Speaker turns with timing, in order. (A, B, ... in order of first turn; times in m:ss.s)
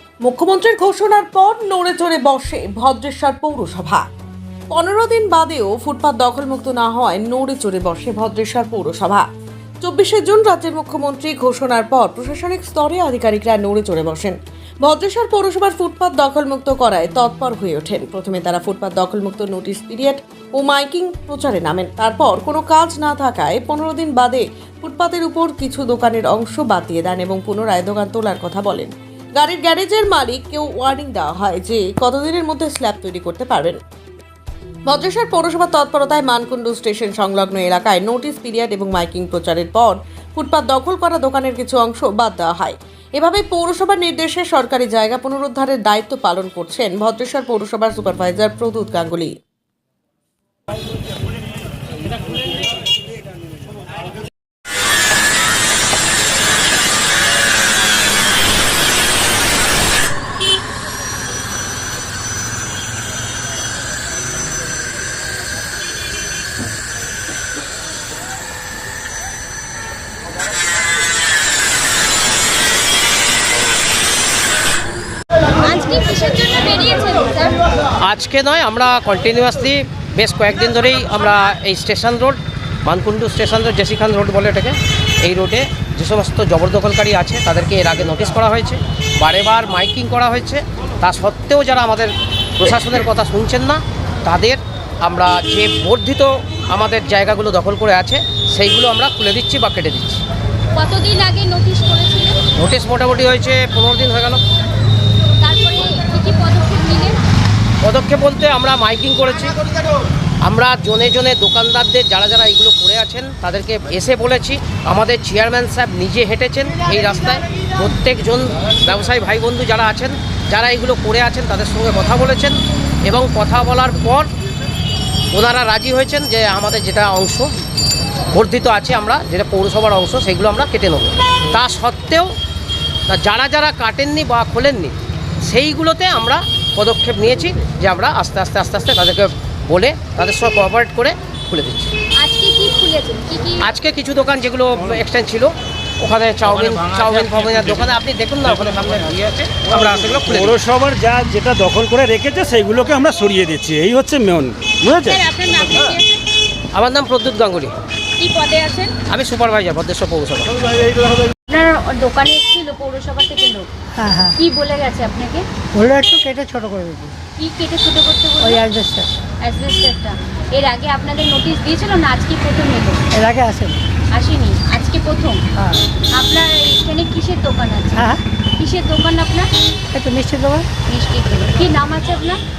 0:00.2-0:04.0 A
0:04.7-0:09.2 A
0:09.8-0:33.8 A
0:34.9-0:49.3 A
1:15.6-1:17.5 B
1:18.0-1:40.2 C
1:40.7-1:42.4 B
1:42.6-1:44.4 C
1:45.4-1:47.2 B
1:47.8-1:49.6 C
1:50.4-2:04.3 C
2:05.3-2:07.5 C
2:08.3-2:12.3 C
2:13.1-2:21.9 C
2:22.2-2:23.6 B
2:23.6-2:30.6 C
2:30.3-2:35.2 D
2:35.0-2:36.2 B
2:36.7-2:37.7 C
2:38.2-2:38.9 B
2:39.1-2:40.6 C
2:41.5-2:43.6 B
2:44.0-2:44.3 E
2:44.4-2:45.4 B
2:45.8-2:47.1 E
2:47.4-2:48.6 B
2:48.4-2:49.1 E
2:49.4-2:53.0 B
2:53.1-2:53.8 E
2:54.1-2:55.4 B
2:55.6-2:55.8 E
2:56.1-2:59.5 B
2:58.0-2:58.2 E
2:59.9-3:00.7 E
3:00.9-3:02.4 B